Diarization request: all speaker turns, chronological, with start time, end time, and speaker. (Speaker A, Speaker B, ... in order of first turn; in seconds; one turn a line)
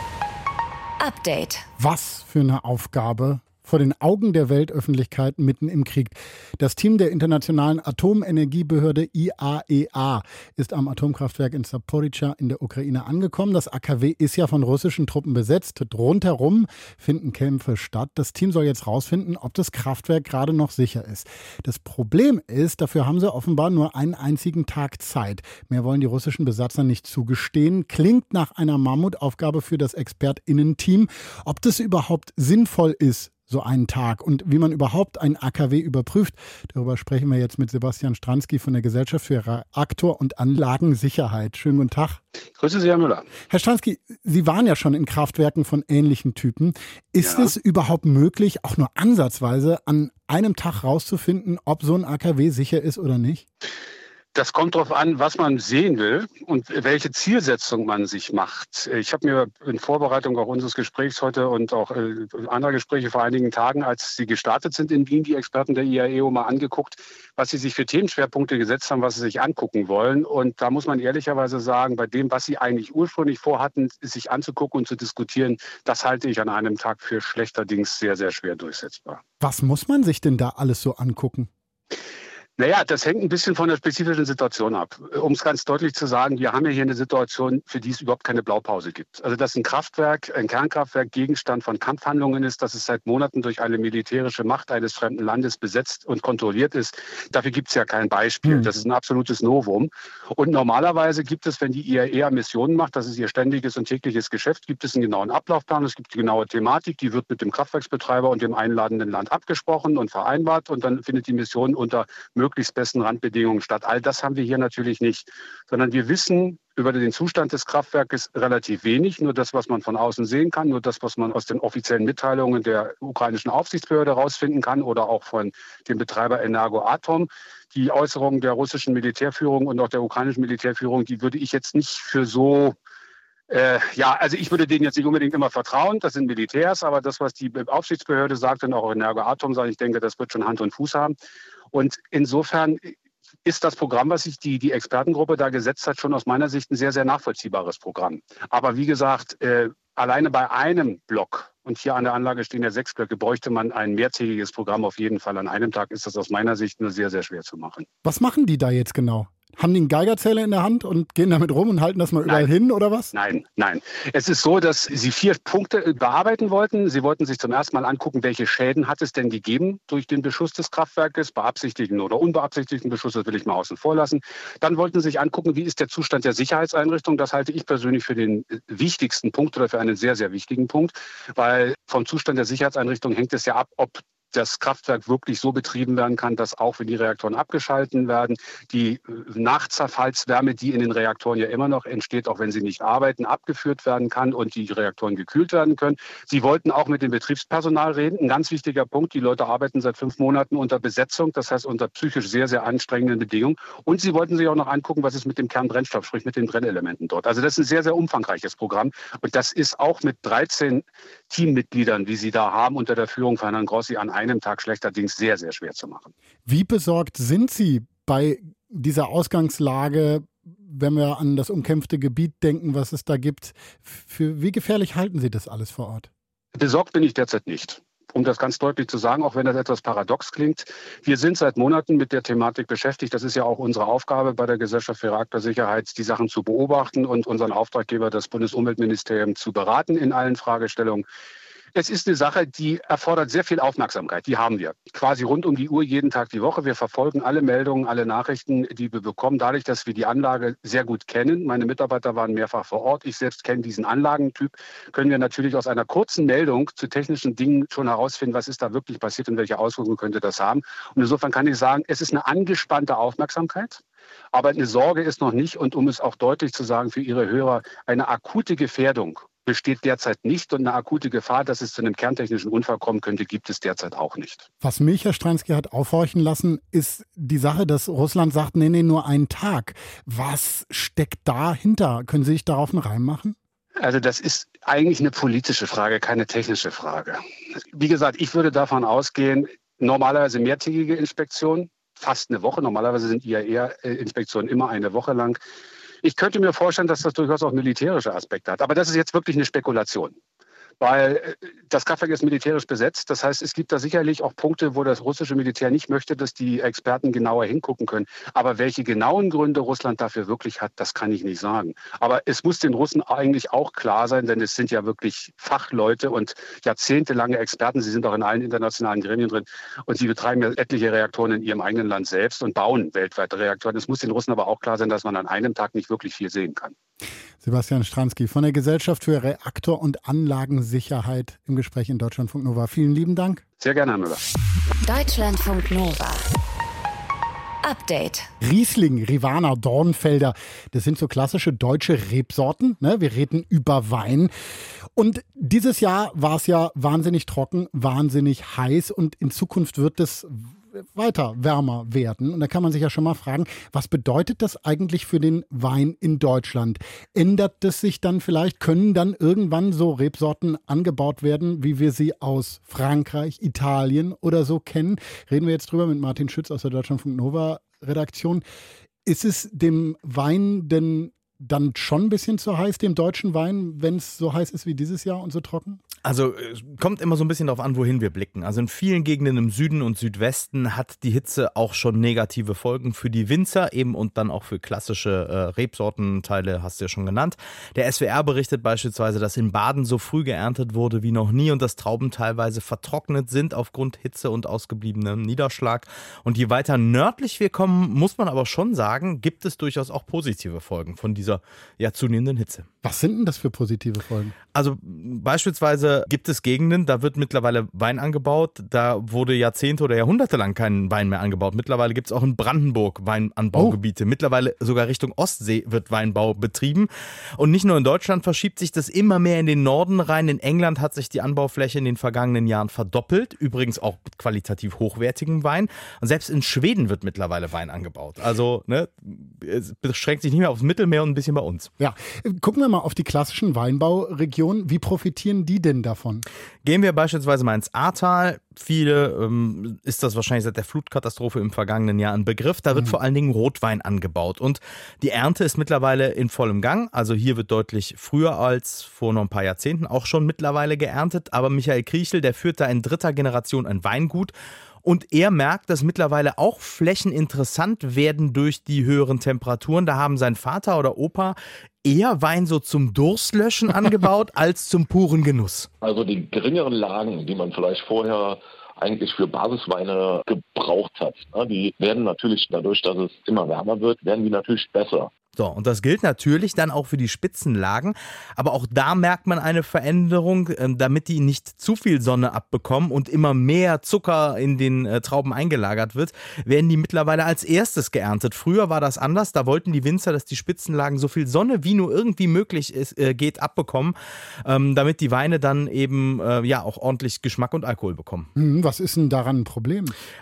Speaker A: 1.0-1.7
Speaker B: 1.8-42.2
Speaker C: 42.6-43.3
Speaker B: 43.5-53.4
Speaker C: 47.2-47.5
Speaker C: 54.3-79.2
Speaker B: 79.4-81.5
Speaker C: 82.6-132.8
Speaker C: 133.5-141.2
Speaker C: 141.7-142.9
Speaker C: 143.4-157.8
Speaker B: 158.0-163.1
Speaker C: 163.1-216.1
Speaker B: 216.4-226.1
Speaker C: 226.6-241.0
Speaker C: 241.7-263.8
Speaker C: 264.3-274.4
Speaker B: 274.6-283.4
Speaker C: 283.8-287.2
Speaker C: 287.7-295.4
Speaker C: 296.0-300.1
Speaker C: 300.8-326.7
Speaker B: 327.4-333.4
Speaker C: 333.6-334.2
Speaker A: 334.8-336.2
Speaker A: 337.6-338.3
Speaker B: 338.4-344.3
Speaker B: 344.9-368.4
Speaker B: 369.0-375.8
Speaker D: 376.0-402.7
Speaker B: 402.8-404.3
Speaker D: 404.5-431.7
Speaker B: 431.8-436.2
Speaker D: 436.6-454.3
Speaker D: 454.8-465.7
Speaker E: 465.8-475.1
Speaker D: 475.4-498.3
Speaker B: 498.3-499.9